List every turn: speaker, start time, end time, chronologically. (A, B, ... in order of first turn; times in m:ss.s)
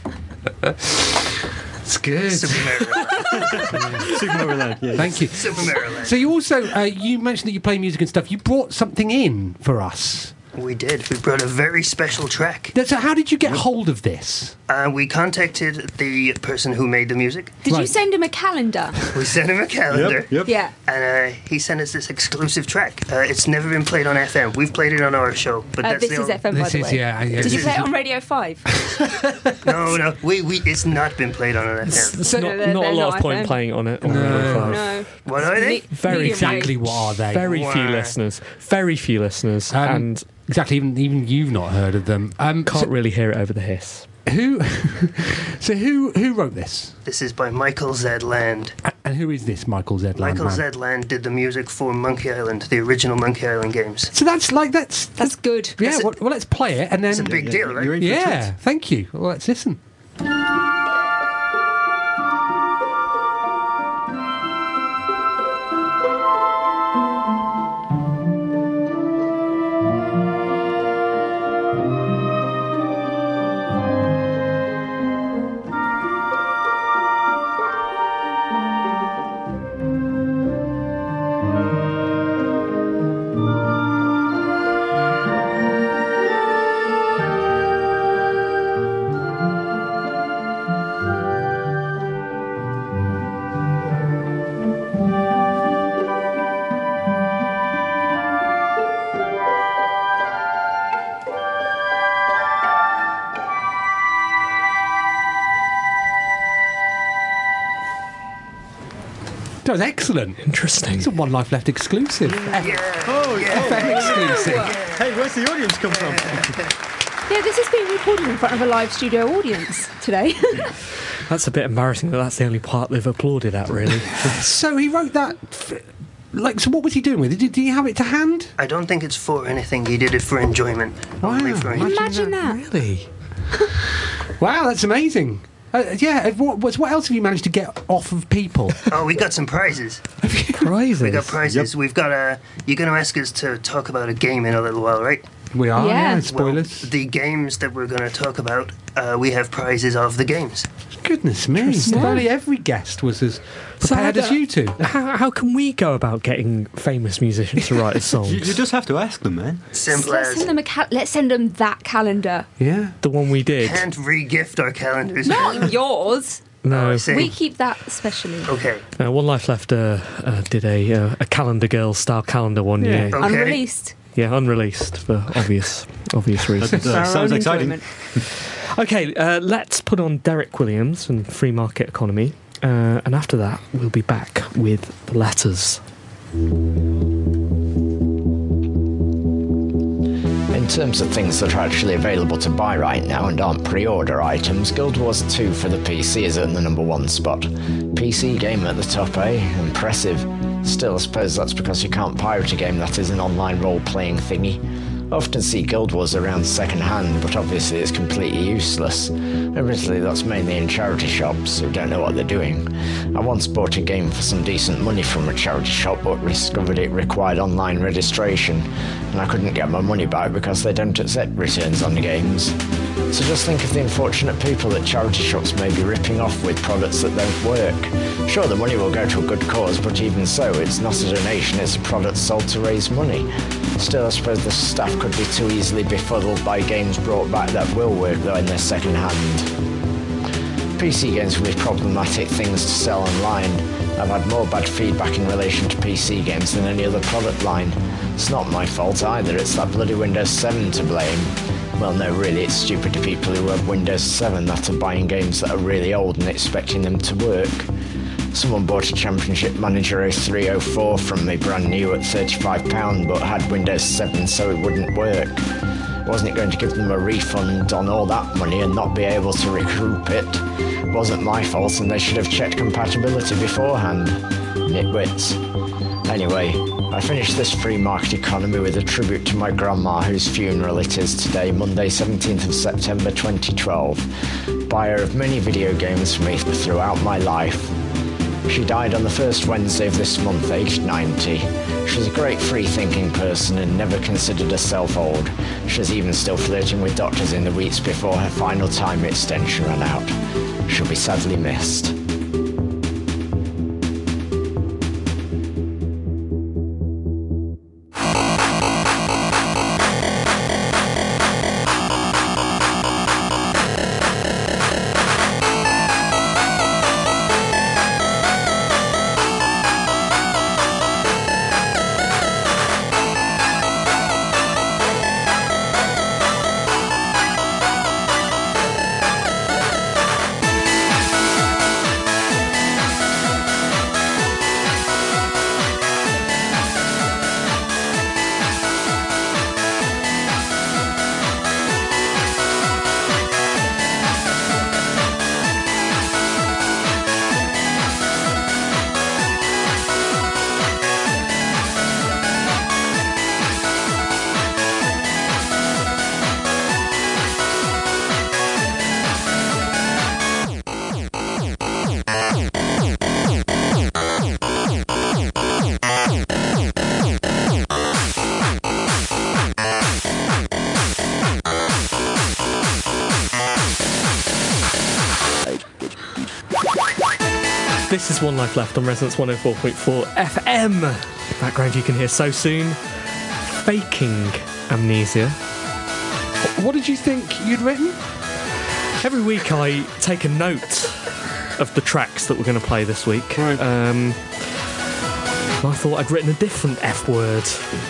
0:00.6-0:04.1 A
0:02.3-0:03.9 B
0:03.4-0:05.7 C
0:04.9-0:10.3 A
0:05.0-0:06.2 B
0:10.6-0:12.7 B
0:12.7-0:14.6 A
0:14.7-0:17.6 B
0:17.6-0:19.0 D
0:17.7-0:18.0 A
0:19.1-0:26.4 B
0:19.9-0:20.6 C
0:20.4-0:20.7 D
0:25.8-0:28.7 D
0:26.5-0:27.9 A
0:27.4-0:27.8 B
0:28.8-0:29.7 A
0:29.6-0:32.2 B
0:31.9-0:35.0 E
0:32.1-0:32.6 A
0:32.2-0:33.6 D
0:34.0-0:34.9 A
0:34.1-0:36.7 D
0:35.2-0:35.9 B
0:35.9-0:40.2 E
0:36.0-0:37.5 A
0:37.4-0:38.2 B
0:39.7-0:42.9 A
0:42.7-0:44.1 E
0:44.3-0:47.0 A
0:47.1-0:48.8 B
0:48.8-0:50.6 A
0:50.2-0:54.1 B
0:54.1-0:59.8 A
0:55.2-0:55.8 D
0:55.8-0:56.1 B
0:57.1-0:58.0 B
0:57.2-0:58.5 C
1:49.6-1:52.8 A
1:50.5-1:51.1 E
1:52.6-1:55.1 B
1:53.0-1:56.6 C
1:53.4-1:54.8 A
1:53.9-1:54.8 D
1:56.1-1:56.5 B
1:57.3-2:00.8 D
2:01.3-2:04.2 E
2:04.2-2:08.5 A
2:08.6-2:11.9 B
2:11.2-2:12.4 A
2:11.8-2:12.6 D
2:12.4-2:13.1 E
2:14.4-2:18.9 A
2:18.9-2:20.0 B
2:20.2-2:20.7 A
2:20.6-2:21.4 E
2:21.0-2:25.3 B
2:21.4-2:21.7 C
2:25.5-2:26.9 A
2:25.8-2:26.3 D
2:26.2-2:30.7 B
2:31.0-2:34.9 A
2:31.6-2:32.2 E
2:31.9-2:32.2 D
2:33.8-2:38.6 E
2:38.2-2:39.6 C
2:39.7-2:40.5 B
2:39.9-2:42.5 D
2:42.6-2:43.0 A
2:43.0-2:43.9 E
2:43.6-2:45.7 B
2:45.2-2:46.4 D
2:46.6-2:47.3 E
2:46.7-2:47.3 B
2:47.1-2:48.5 D
2:48.5-2:48.8 B
2:49.0-2:53.2 E
2:52.8-2:53.2 A
2:52.9-2:53.9 D
2:53.1-2:53.6 B
2:54.2-2:57.0 E
2:56.6-2:58.2 C
2:56.8-2:57.8 D
2:58.3-3:05.8 E
3:10.5-3:42.6 F
3:43.1-3:59.5 F
4:00.8-4:17.7 F
4:18.3-4:25.4 F
4:26.0-4:35.4 F
4:36.1-4:44.1 F
4:44.7-4:47.8 F
4:48.5-5:00.1 F
5:00.7-5:02.0 F
6:17.9-6:22.8 E
6:23.5-6:25.4 E
6:26.4-6:28.0 A
6:29.0-6:34.5 E
6:33.4-6:33.6 A
6:35.6-6:37.6 E